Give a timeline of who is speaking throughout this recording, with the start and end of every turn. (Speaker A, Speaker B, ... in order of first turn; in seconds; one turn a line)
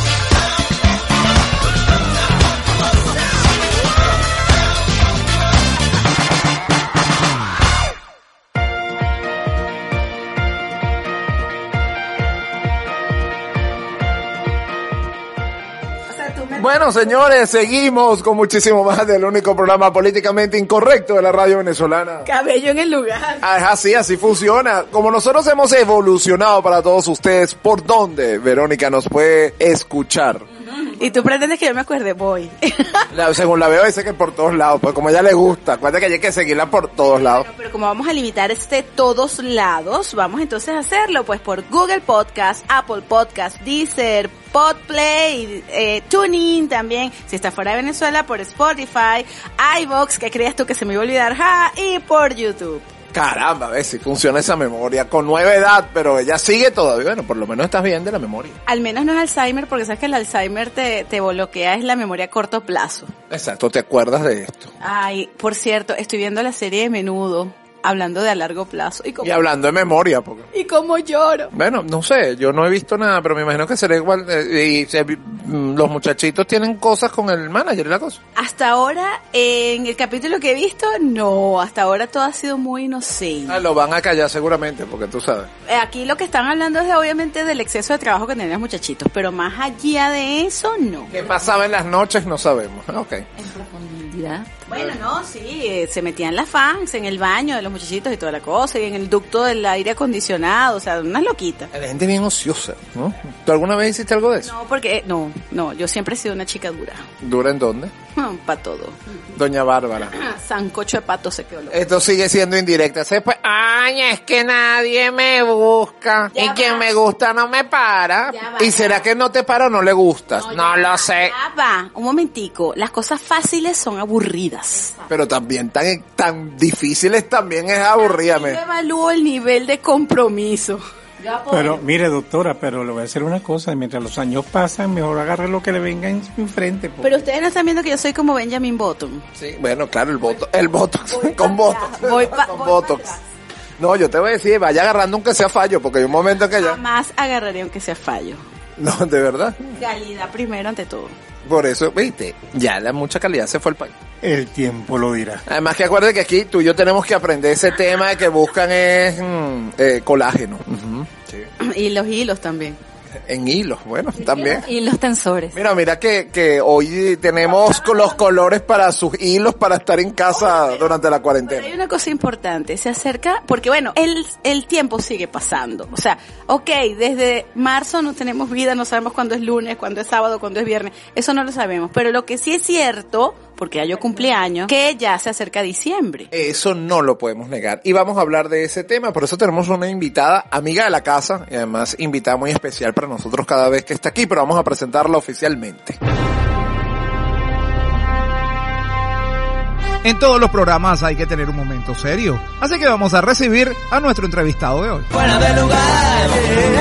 Speaker A: 16.1-17.1
Speaker B: 16.6-22.3
Speaker A: 22.2-23.4
Speaker B: 23.4-30.5
Speaker A: 30.7-33.1
Speaker B: 33.1-37.5
Speaker A: 37.1-52.9
Speaker B: 53.1-58.6
Speaker A: 58.7-63.1
Speaker B: 63.3-64.7
Speaker A: 64.8-69.4
Speaker B: 69.2-70.5
Speaker A: 70.5-71.5
Speaker B: 71.5-78.2
Speaker A: 78.4-83.6
Speaker B: 83.5-85.5
Speaker A: 85.7-91.2
Speaker B: 91.1-93.3
Speaker C: 93.4-94.5
Speaker A: 94.7-101.7
Speaker B: 101.7-104.5
Speaker A: 104.4-107.0
Speaker B: 107.2-107.9
Speaker A: 108.2-109.0
Speaker B: 109.4-110.2
Speaker A: 110.2-111.9
Speaker B: 111.7-121.3
Speaker A: 116.3-116.9
Speaker A: 118.3-119.1
Speaker A: 120.3-125.0
Speaker B: 125.1-128.6
Speaker A: 128.0-130.8
Speaker C: 131.2-131.8
Speaker D: 131.5-137.2
Speaker A: 137.0-139.2
Speaker B: 139.4-143.2
Speaker A: 141.1-143.2
Speaker B: 143.8-146.8
Speaker A: 146.5-148.4
Speaker B: 148.8-149.8
Speaker A: 149.8-151.2
Speaker B: 151.4-153.9
Speaker D: 154.2-155.4
Speaker B: 155.5-161.5
Speaker A: 161.6-162.8
Speaker B: 163.3-164.7
Speaker C: 164.3-165.6
Speaker B: 165.5-171.7
Speaker A: 170.4-170.8
Speaker A: 171.5-186.3
Speaker B: 186.3-196.0
Speaker E: 200.0-205.1